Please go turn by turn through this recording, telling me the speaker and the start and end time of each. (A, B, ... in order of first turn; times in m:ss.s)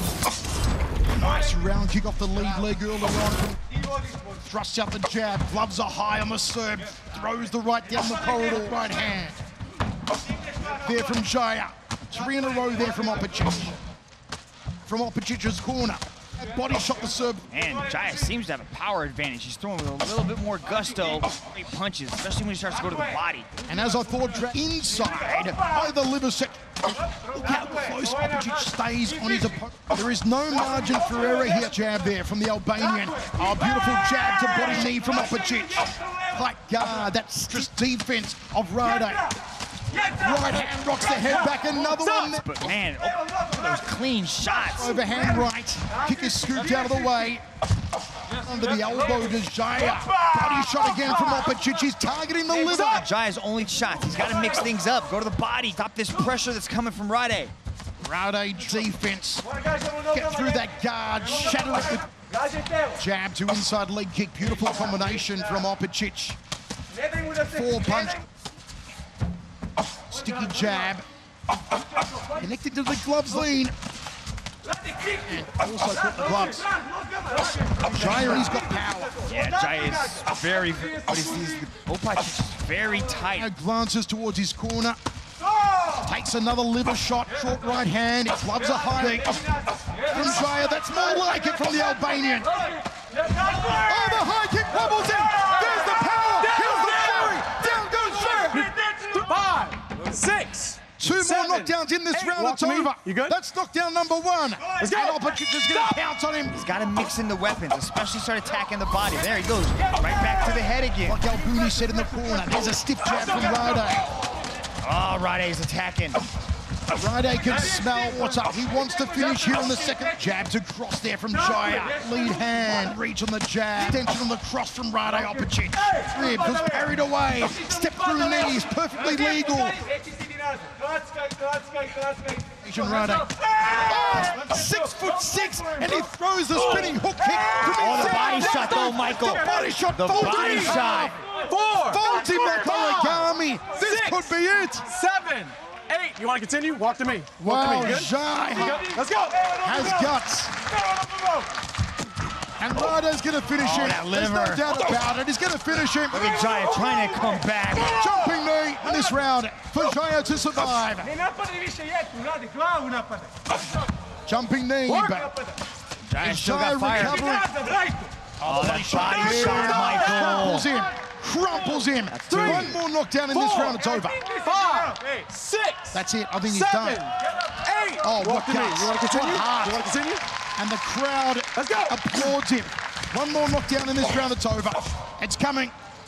0:01.1-0:03.6 A
0:04.4-0:09.4 A
0:10.8-0:13.8 A
0:14.8-0:17.5 A
0:17.5-0:23.5 B
0:23.6-0:39.3 A
0:39.9-0:42.5 A
0:41.9-0:42.3 C
0:42.4-0:45.0 B
0:44.6-0:47.4 A
0:48.4-0:53.0 A
0:52.5-0:57.5 B
0:58.0-1:02.1 A
1:02.9-1:06.4 A
1:07.4-1:08.2 A
1:10.1-1:11.0 A
1:12.3-1:13.7 A
1:15.1-1:16.8 A
1:17.2-1:17.5 C
1:17.9-1:19.2 A
1:19.2-1:23.5 B
1:23.3-1:25.0 A
1:26.0-1:29.5 A
1:30.0-1:32.7 A
1:33.4-1:38.7 A
1:36.5-1:37.4 C
1:38.5-1:43.3 C
1:41.0-1:46.6 A
1:44.8-1:45.2 C
1:46.5-1:51.2 B
1:51.0-1:54.0 A
1:54.8-1:56.2 B
1:56.9-2:09.8 A
2:10.1-2:12.4 C
2:12.6-2:21.2 A
2:17.7-2:21.2 B
2:18.2-2:19.0 C
2:20.2-2:20.8 C
2:21.4-2:22.0 C
2:21.8-2:24.9 A
2:22.6-2:23.2 C
2:23.8-2:24.3 C
2:24.8-2:29.5 C
2:27.4-2:28.9 A
2:29.5-2:30.5 A
2:31.0-2:31.3 C
2:32.6-2:36.3 A
2:33.6-2:34.6 B
2:36.1-2:38.1 B
2:37.8-2:41.2 A
2:41.4-2:43.3 C
2:44.2-2:45.3 A
2:44.9-2:45.2 C
2:46.1-2:47.3 B
2:46.2-2:47.6 A
2:47.7-2:48.1 C
2:48.4-2:54.2 A
2:48.4-2:50.7 B
2:52.1-2:52.8 B
2:52.3-2:52.7 C
2:53.3-3:00.2 C
2:55.9-2:57.0 A
2:58.0-2:59.9 A
3:00.6-3:05.7 A
3:01.5-3:02.3 C